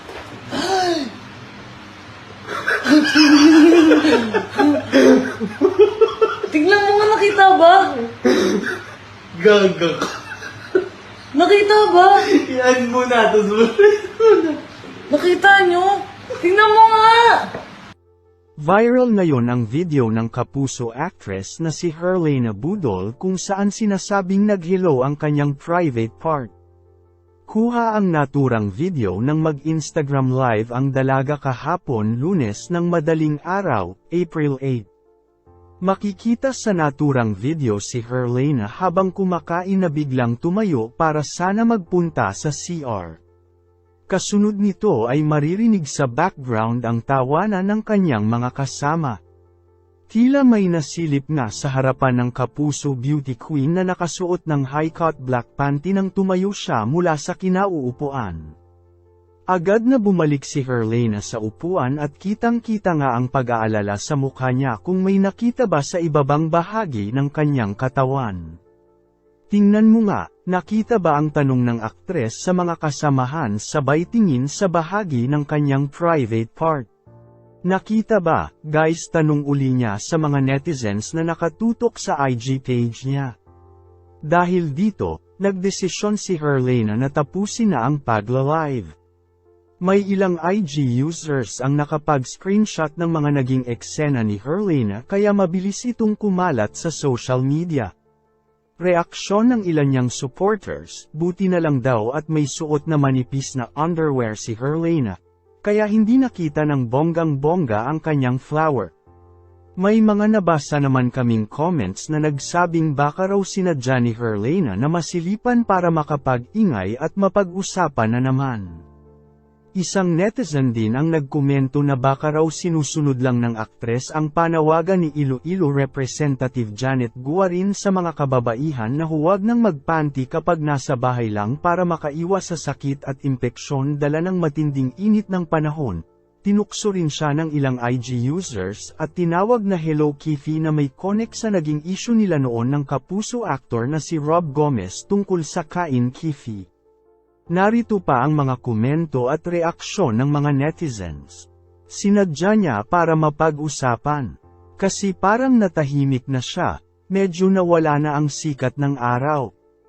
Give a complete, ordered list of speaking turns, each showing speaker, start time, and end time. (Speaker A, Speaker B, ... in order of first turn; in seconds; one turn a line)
Speaker A: 0.5-1.1
Speaker A: 2.8-4.9
Speaker B: 5.0-6.4
Speaker A: 6.4-8.1
Speaker B: 8.2-8.6
Speaker B: 9.3-10.2
Speaker A: 11.3-12.3
Speaker B: 12.2-14.6
Speaker A: 15.1-17.5
Speaker C: 18.6-26.5
Speaker C: 27.4-34.9
Speaker C: 35.8-43.2
Speaker C: 44.1-49.2
Speaker C: 50.1-58.5
Speaker C: 59.5-68.6
Speaker C: 69.5-76.9
Speaker C: 77.6-83.3
Speaker C: 84.2-88.9
Speaker C: 89.8-97.9
Speaker C: 98.8-108.9
Speaker C: 109.8-118.8
Speaker C: 119.8-146.7
Speaker C: 147.5-159.5